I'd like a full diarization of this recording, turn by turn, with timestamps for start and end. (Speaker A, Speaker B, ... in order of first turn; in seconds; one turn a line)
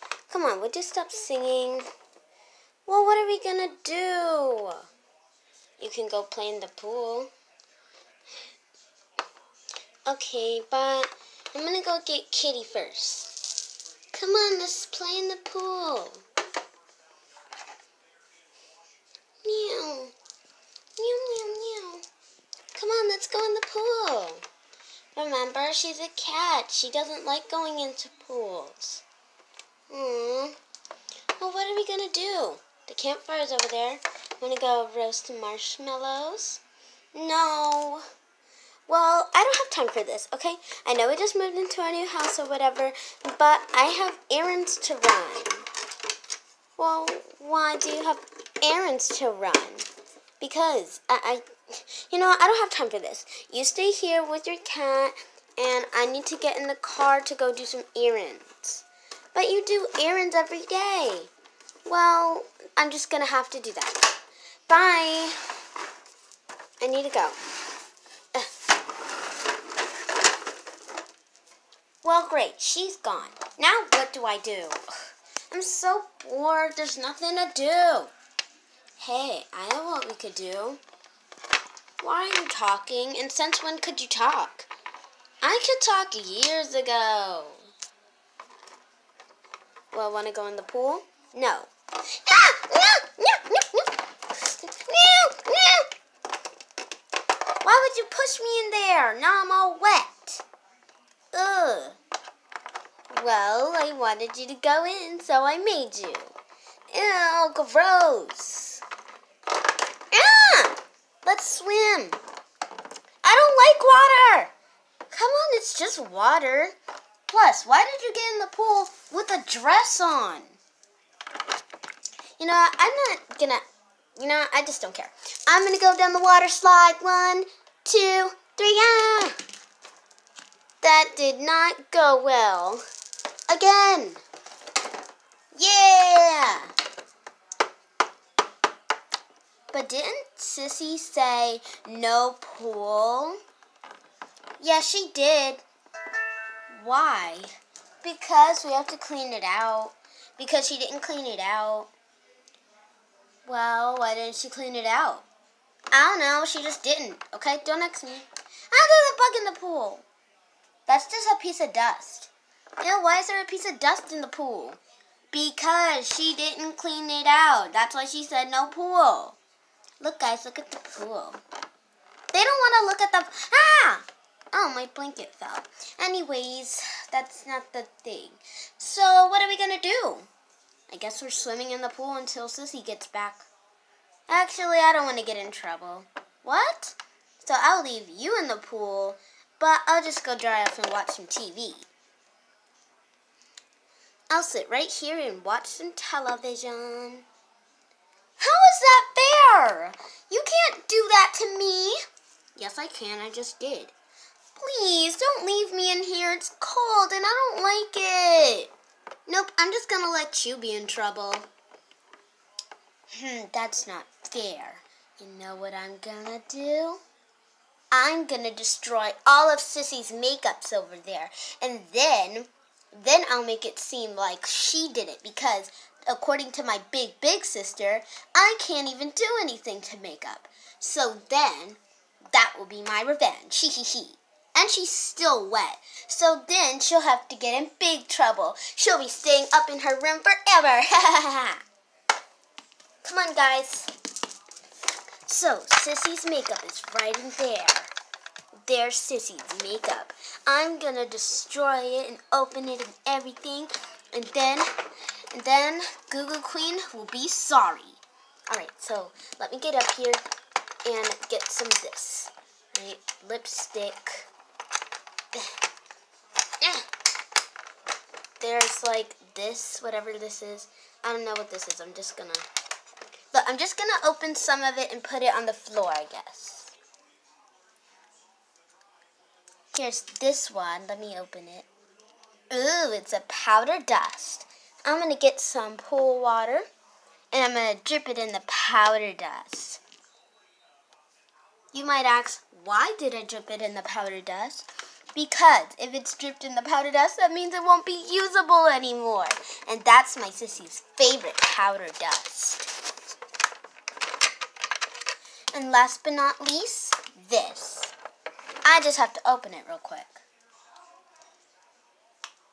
Speaker A: 0.3-1.9
Speaker A: 2.9-4.8
Speaker A: 5.8-7.3
Speaker A: 10.1-13.3
Speaker A: 14.1-16.2
Speaker A: 19.4-20.1
Speaker A: 21.0-22.0
Speaker A: 22.8-24.4
Speaker A: 25.1-29.0
Speaker A: 29.9-30.6
Speaker A: 31.4-36.6
Speaker A: 37.1-38.0
Speaker A: 38.9-45.7
Speaker A: 46.8-49.9
Speaker A: 50.4-61.3
Speaker A: 61.9-65.4
Speaker A: 66.8-67.4
Speaker A: 72.0-74.8
Speaker A: 75.5-78.1
Speaker A: 79.0-80.8
Speaker A: 82.0-84.7
Speaker A: 85.4-87.6
Speaker A: 89.9-95.9
Speaker A: 97.6-100.5
Speaker A: 101.3-102.0
Speaker A: 103.1-106.3
Speaker A: 106.9-108.8
Speaker A: 110.1-112.2
Speaker A: 113.2-114.5
Speaker A: 115.1-116.7
Speaker A: 117.3-120.6
Speaker A: 122.4-123.7
Speaker A: 124.2-129.4
Speaker A: 130.8-132.8
Speaker A: 133.5-134.2
Speaker A: 135.5-136.7
Speaker A: 139.7-143.4
Speaker A: 144.6-145.7
Speaker A: 146.7-151.9
Speaker A: 153.5-155.3
Speaker A: 155.9-160.1
Speaker A: 160.9-164.8
Speaker A: 165.3-169.4
Speaker A: 170.0-171.4
Speaker A: 172.3-180.3
Speaker A: 180.9-183.5
Speaker A: 184.3-191.9
Speaker A: 194.3-197.3
Speaker A: 198.4-202.0
Speaker A: 202.6-203.9
Speaker A: 204.6-208.7
Speaker A: 209.3-211.5
Speaker A: 213.1-217.0
Speaker A: 217.9-231.8
Speaker A: 232.3-241.6
Speaker A: 243.1-243.9
Speaker A: 245.3-247.9
Speaker A: 248.7-254.7
Speaker A: 255.3-260.2
Speaker A: 260.9-264.3
Speaker A: 266.6-266.9
Speaker A: 268.4-272.4
Speaker A: 273.3-276.8
Speaker A: 279.7-281.7
Speaker A: 282.5-286.7
Speaker A: 287.3-289.8
Speaker A: 291.7-302.7
Speaker A: 305.5-307.9
Speaker A: 308.6-310.2